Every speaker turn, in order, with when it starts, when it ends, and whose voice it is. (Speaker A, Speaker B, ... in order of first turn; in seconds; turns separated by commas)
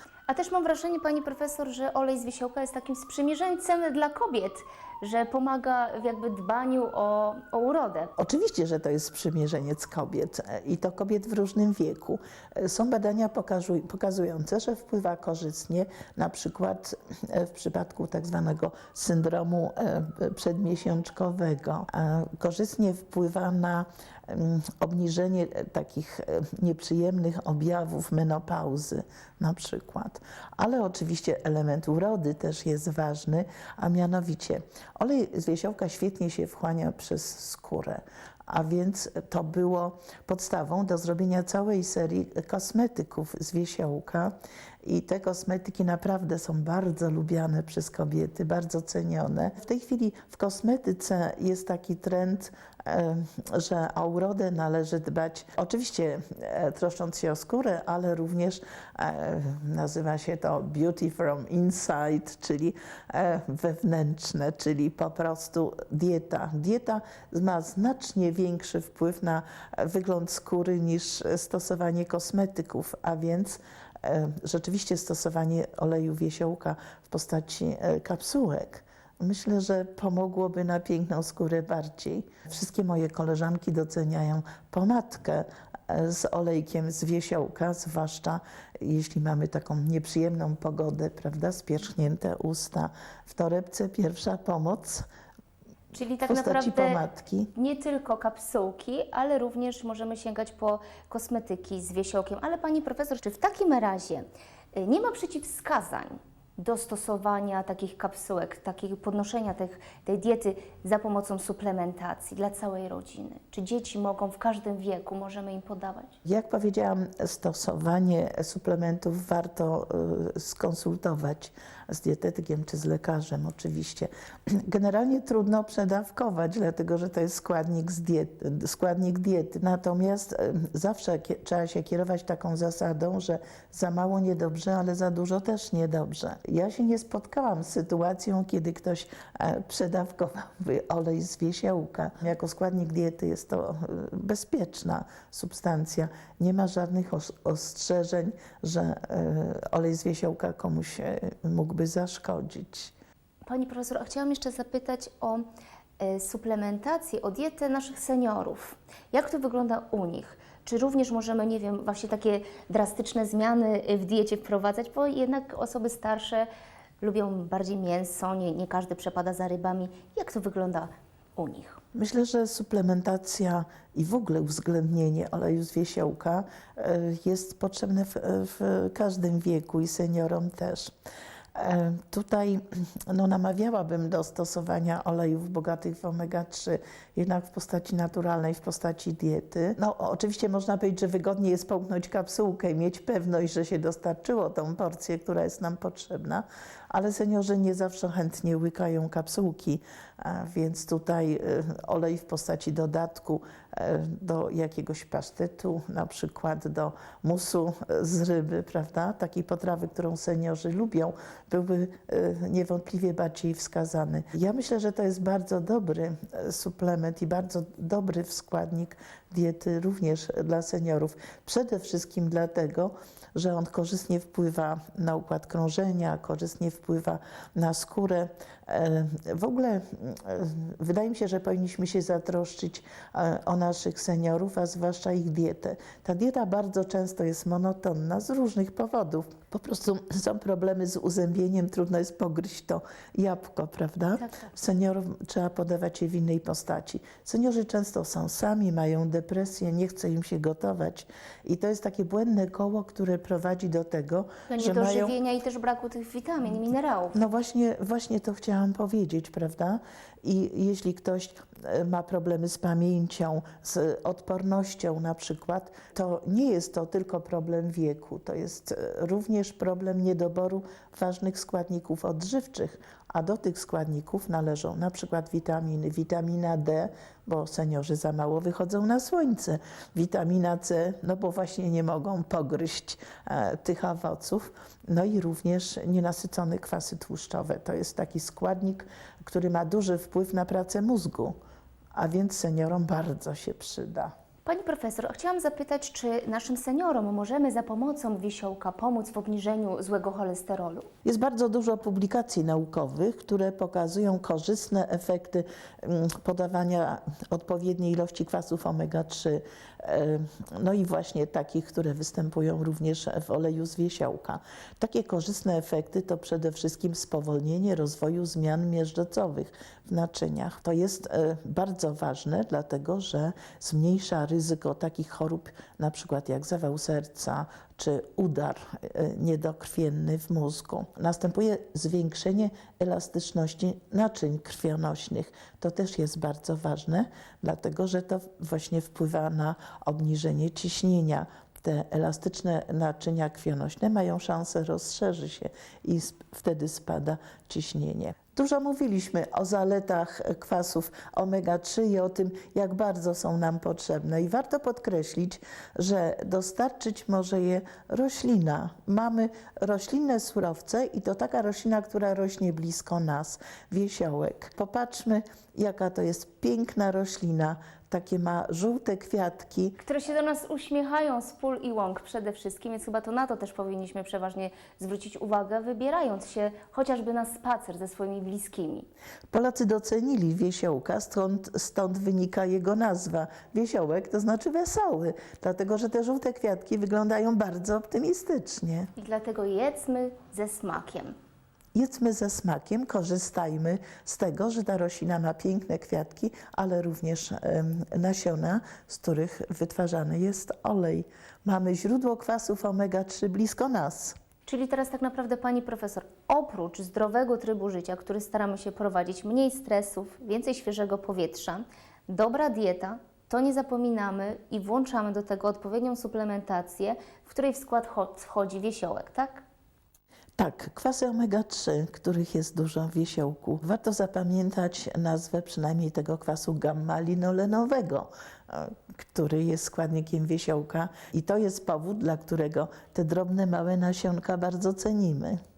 Speaker A: 0.3-8.1, Speaker B: 8.2-95.0, Speaker A: 95.9-97.0, Speaker B: 96.2-97.5, Speaker A: 97.5-116.2, Speaker B: 116.2-152.9, Speaker A: 153.5-155.4, Speaker A: 156.0-166.5, Speaker A: 167.0-171.8, Speaker B: 171.9-180.9, Speaker B: 181.5-255.1, Speaker A: 254.5-257.1, Speaker B: 257.1-291.3, Speaker B: 291.9-294.1, Speaker A: 294.4-300.9, Speaker B: 301.0-369.8, Speaker A: 369.8-378.9, Speaker B: 379.3-388.9, Speaker A: 388.9-391.1, Speaker B: 391.7-404.1, Speaker A: 404.4-419.4, Speaker B: 420.4-435.4